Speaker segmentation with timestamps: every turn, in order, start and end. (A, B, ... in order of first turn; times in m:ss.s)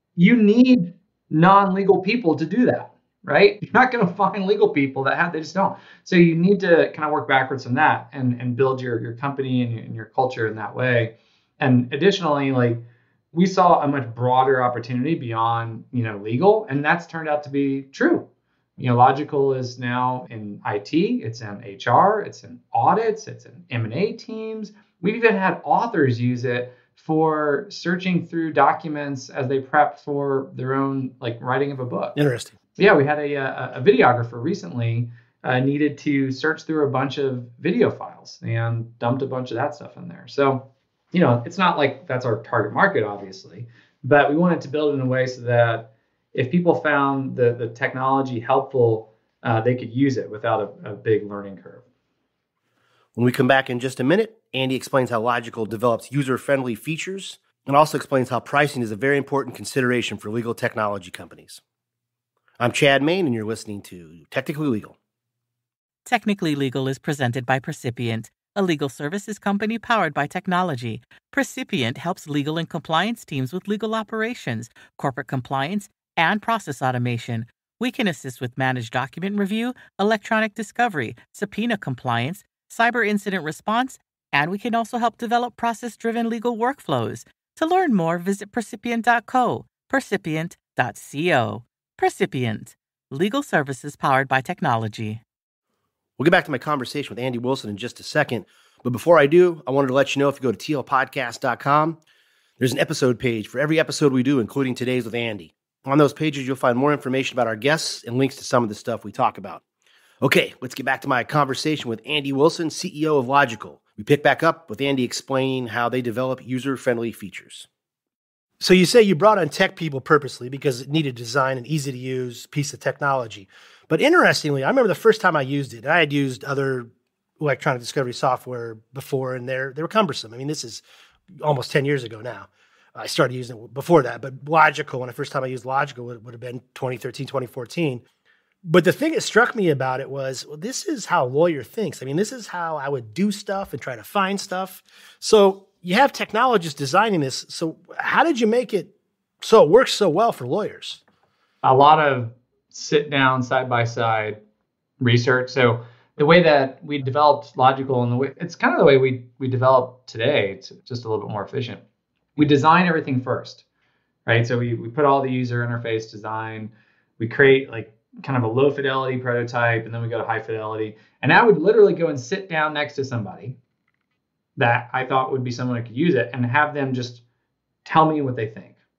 0:00.2-0:18.3 A
0:18.8-0:32.2 A
0:32.2-0:32.5 B
0:32.8-0:51.8 A
0:53.2-1:01.6 B
1:02.6-1:05.0 B
1:06.1-1:35.2 C
1:36.2-1:42.0 B
1:42.6-1:49.6 B
1:50.2-1:57.7 B
1:58.6-2:10.8 B
2:11.4-2:18.0 B
2:18.6-2:31.0 B
2:31.6-2:34.4 A
2:35.0-2:41.8 A
2:42.4-2:43.6 A
2:44.3-2:53.6 A
2:54.6-2:57.2 A
2:57.8-2:58.8 A